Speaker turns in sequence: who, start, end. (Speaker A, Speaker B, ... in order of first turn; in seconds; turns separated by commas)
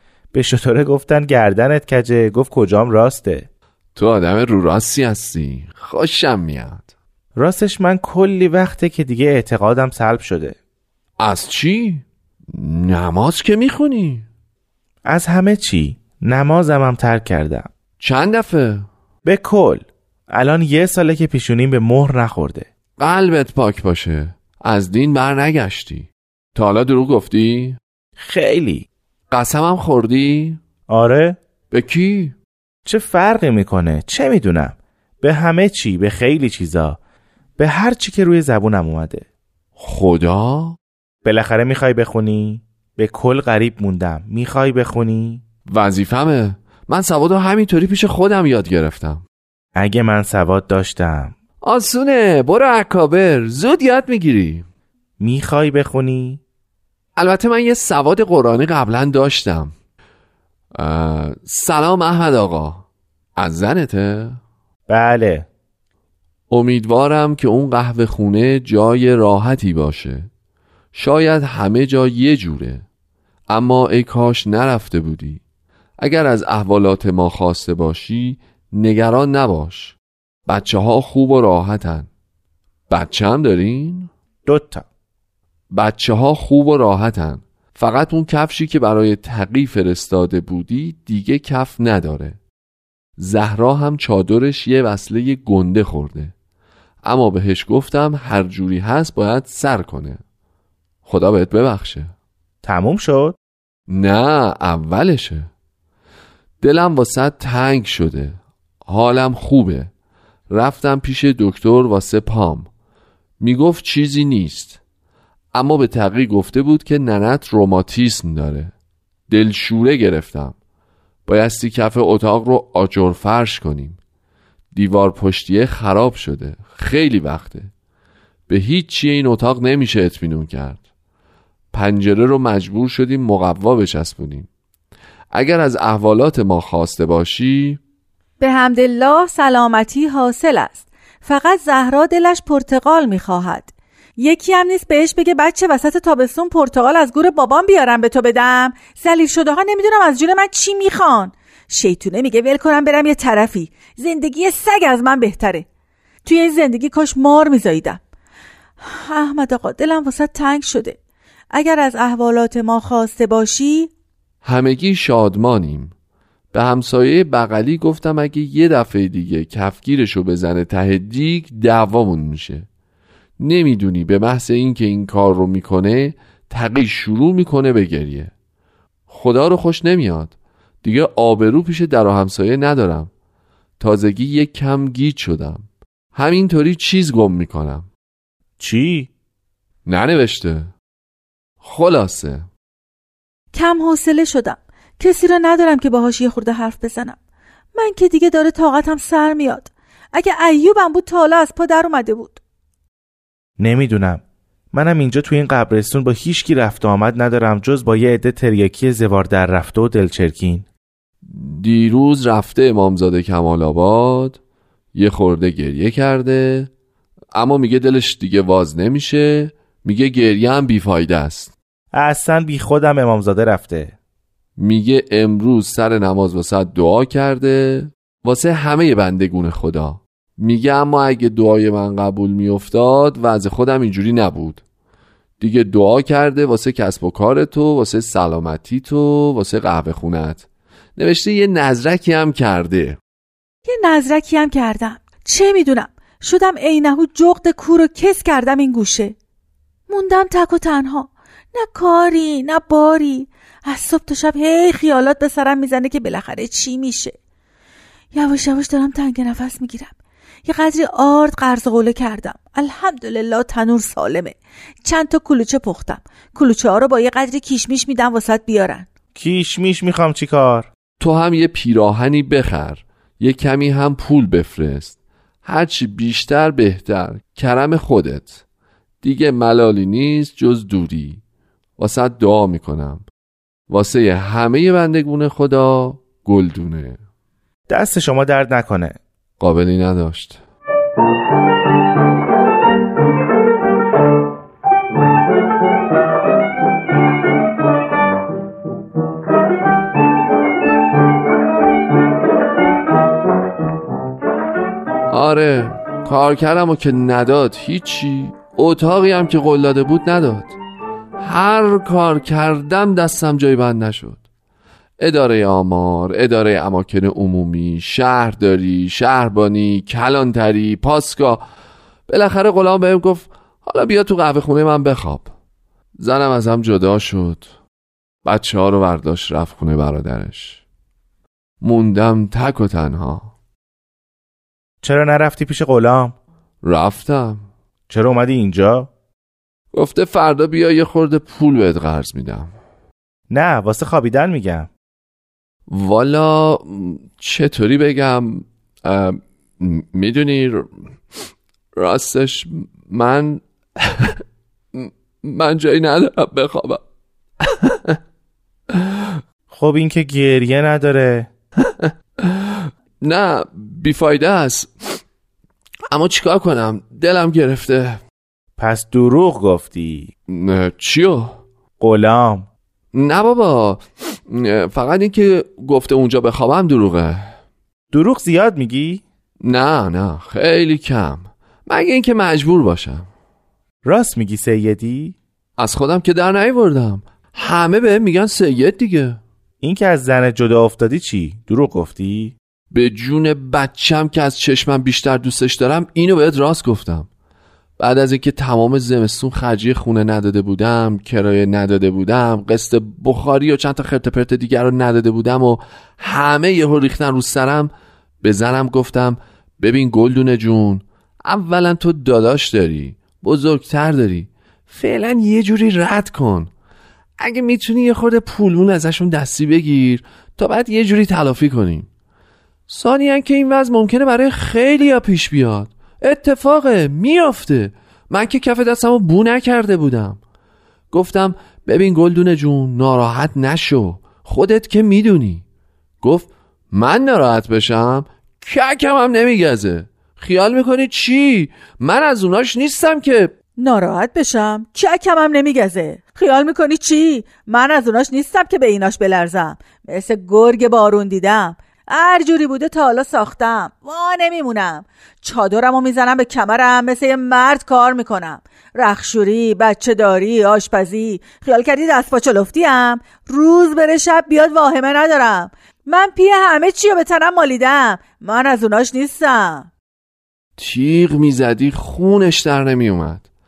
Speaker A: 0.3-3.5, Speaker B: 4.0-6.9, Speaker A: 7.4-10.6, Speaker B: 11.2-14.3, Speaker A: 15.1-17.7, Speaker B: 18.0-18.9, Speaker A: 19.2-22.7, Speaker B: 23.0-27.8, Speaker A: 28.2-28.9, Speaker B: 29.3-30.6, Speaker A: 30.9-31.4, Speaker B: 31.7-32.4, Speaker A: 32.9-37.0, Speaker A: 37.6-39.3, Speaker B: 39.8-40.8, Speaker A: 41.2-45.4, Speaker B: 45.7-49.2, Speaker A: 49.8-51.4, Speaker B: 51.6-54.7, Speaker A: 55.2-56.4, Speaker B: 57.2-59.7, Speaker B: 60.8-62.9, Speaker B: 63.4-64.4, Speaker A: 64.9-65.5, Speaker B: 66.5-70.3, Speaker B: 70.9-72.8, Speaker B: 73.5-75.4, Speaker B: 76.0-82.1, Speaker B: 82.9-84.1, Speaker A: 84.5-84.9, Speaker B: 85.7-92.4, Speaker B: 93.2-96.3, Speaker B: 97.0-100.2, Speaker B: 101.0-102.1, Speaker A: 102.6-103.4, Speaker B: 103.9-105.5, Speaker B: 106.6-109.9, Speaker B: 110.5-112.7, Speaker B: 113.4-114.8, Speaker B: 115.5-118.7, Speaker B: 119.3-120.6, Speaker B: 121.3-124.0, Speaker B: 124.7-127.7, Speaker B: 128.5-130.8, Speaker B: 131.7-134.5, Speaker B: 135.3-137.8, Speaker C: 138.4-155.7, Speaker C: 156.2-158.0, Speaker C: 158.8-161.0, Speaker C: 161.5-163.9, Speaker B: 164.4-165.9, Speaker B: 166.5-172.7, Speaker B: 173.4-178.3, Speaker B: 179.1-183.1, Speaker B: 183.8-187.9, Speaker A: 188.6-189.1, Speaker B: 189.9-190.7, Speaker B: 191.6-192.5, Speaker C: 193.5-197.2, Speaker C: 197.8-202.4, Speaker A: 203.6-210.7, Speaker B: 211.3-214.4, Speaker B: 214.9-216.7, Speaker B: 217.3-221.5, Speaker A: 221.9-223.9, Speaker B: 224.6-234.6, Speaker B: 235.4-240.5, Speaker B: 241.0-243.0, Speaker C: 243.7-249.2, Speaker C: 249.9-257.2, Speaker C: 258.1-259.9, Speaker C: 260.5-268.9, Speaker A: 269.1-270.7, Speaker B: 271.0-278.4, Speaker B: 279.0-281.2, Speaker B: 281.8-283.1, Speaker B: 283.7-287.0, Speaker A: 287.7-289.0, Speaker B: 289.4-290.4, Speaker B: 305.1-310.6, Speaker B: 311.2-314.2, Speaker B: 315.0-321.4, Speaker B: 322.1-325.3, Speaker B: 326.0-327.5, Speaker B: 328.2-330.6, Speaker B: 331.6-333.3, Speaker A: 334.8-336.2, Speaker B: 336.6-337.4, Speaker A: 337.9-338.9, Speaker B: 339.7-342.5, Speaker A: 343.3-344.7, Speaker B: 345.7-354.2, Speaker B: 354.7-356.8, Speaker B: 357.4-358.0, Speaker B: 358.7-359.2, Speaker A: 359.5-361.3, Speaker B: 361.6-365.0, Speaker B: 365.9-368.0, Speaker A: 368.6-370.1, Speaker B: 370.3-371.4, Speaker A: 371.8-372.5, Speaker B: 372.9-377.4, Speaker A: 377.9-379.0, Speaker B: 379.4-383.1, Speaker A: 383.9-385.2, Speaker B: 385.6-389.2, Speaker A: 389.6-392.4, Speaker B: 392.7-397.1, Speaker B: 397.8-407.7, Speaker B: 408.2-416.5, Speaker B: 417.2-421.9, Speaker B: 422.7-430.2, Speaker B: 430.9-435.4, Speaker B: 436.0-443.3, Speaker C: 443.6-469.7, Speaker B: 470.6-473.3